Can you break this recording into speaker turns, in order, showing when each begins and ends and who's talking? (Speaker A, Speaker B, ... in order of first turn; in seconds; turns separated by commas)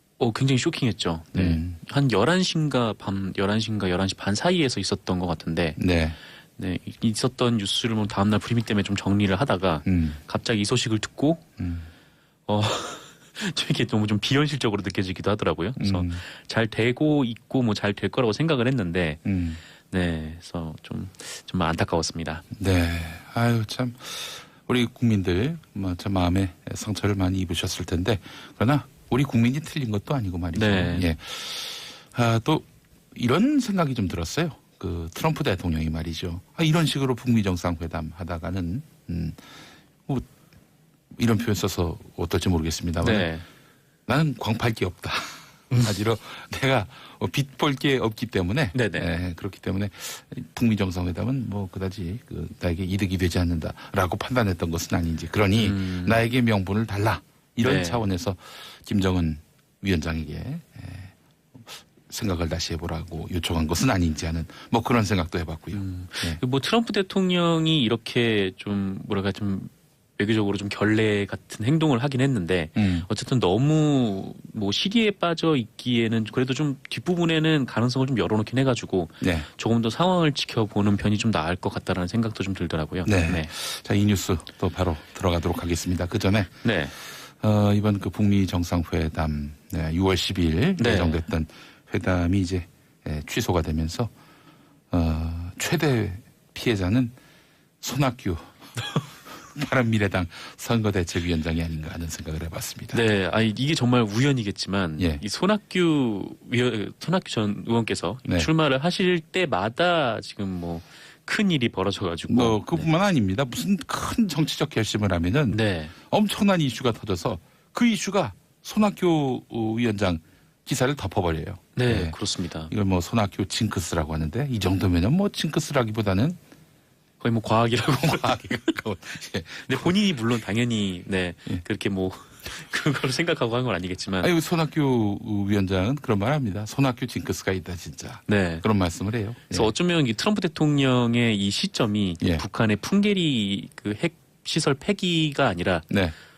Speaker A: 0.2-5.8, Speaker B: 1.3-1.8, Speaker B: 5.8-6.2, Speaker A: 6.6-11.4, Speaker B: 9.8-10.2, Speaker B: 11.6-11.9, Speaker A: 12.5-19.2, Speaker B: 15.8-16.2, Speaker B: 19.2-19.6, Speaker A: 19.9-22.4, Speaker B: 22.5-39.4, Speaker A: 30.5-31.1, Speaker B: 41.2-43.3, Speaker A: 43.0-43.4, Speaker B: 44.1-66.4, Speaker A: 48.7-49.1, Speaker A: 55.6-56.2, Speaker A: 57.6-58.0, Speaker A: 65.7-83.5, Speaker B: 72.8-73.1, Speaker B: 79.2-79.5, Speaker B: 83.0-94.1, Speaker A: 86.6-86.9, Speaker A: 90.8-91.2, Speaker B: 94.9-97.1, Speaker B: 97.8-103.0, Speaker A: 102.9-112.9, Speaker B: 112.3-122.2, Speaker A: 115.5-115.9, Speaker A: 121.7-122.7, Speaker B: 122.7-126.4, Speaker A: 127.2-128.7, Speaker B: 127.9-130.0, Speaker A: 129.7-134.3, Speaker B: 134.2-139.7, Speaker A: 138.3-138.6, Speaker A: 139.5-145.9, Speaker B: 145.9-146.1